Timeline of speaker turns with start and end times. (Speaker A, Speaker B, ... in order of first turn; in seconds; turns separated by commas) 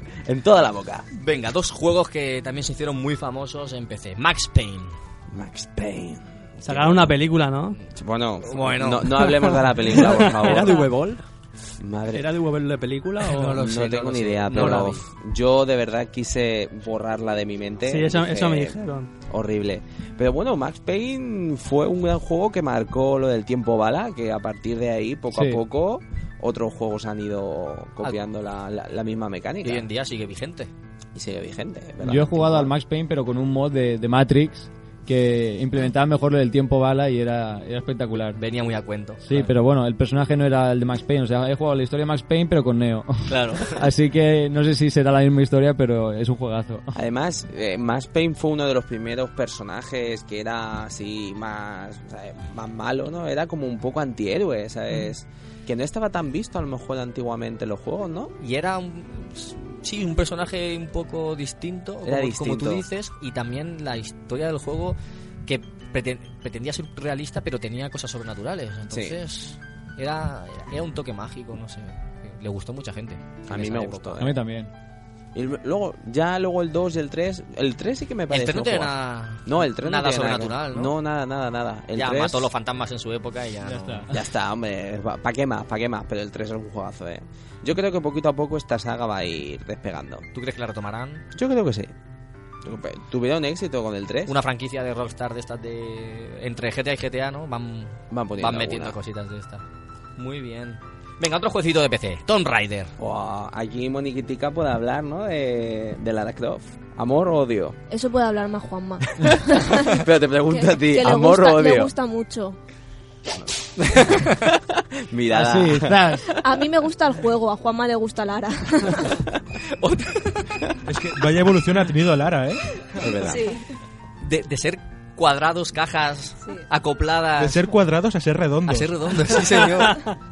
Speaker A: 0.2-1.0, Speaker B: 1.1-4.9, Speaker A: 5.3-7.2, Speaker C: 6.6-7.8, Speaker A: 7.9-10.9, Speaker B: 8.4-9.3, Speaker D: 10.3-11.2, Speaker A: 11.8-12.2, Speaker D: 12.1-13.6, Speaker B: 13.3-15.0, Speaker A: 13.5-18.8, Speaker C: 17.8-19.1, Speaker A: 19.3-29.9, Speaker E: 25.3-25.6, Speaker B: 29.6-30.7, Speaker A: 31.1-32.7, Speaker E: 32.0-38.4, Speaker B: 38.3-39.5, Speaker E: 39.2-46.9, Speaker B: 43.3-43.8, Speaker A: 46.9-58.3, Speaker B: 58.4-74.2, Speaker A: 62.0-62.8, Speaker A: 68.9-69.2, Speaker A: 73.5-74.3, Speaker E: 74.2-74.7, Speaker A: 75.3-82.5, Speaker B: 78.3-80.9, Speaker B: 81.9-84.1, Speaker E: 83.6-84.2, Speaker A: 84.1-90.2, Speaker B: 90.3-91.2, Speaker A: 91.3-91.9, Speaker A: 92.6-94.3, Speaker B: 94.3-99.6, Speaker A: 98.1-99.0, Speaker B: 100.2-102.9, Speaker A: 103.0-107.8, Speaker F: 107.9-112.6, Speaker A: 109.8-111.9, Speaker A: 113.4-116.0, Speaker E: 115.3-116.3, Speaker F: 116.3-119.2, Speaker B: 119.8-120.5, Speaker G: 120.8-122.7, Speaker A: 123.0-123.5, Speaker F: 123.2-123.6, Speaker B: 124.2-127.7, Speaker G: 127.4-128.9, Speaker B: 128.7-130.0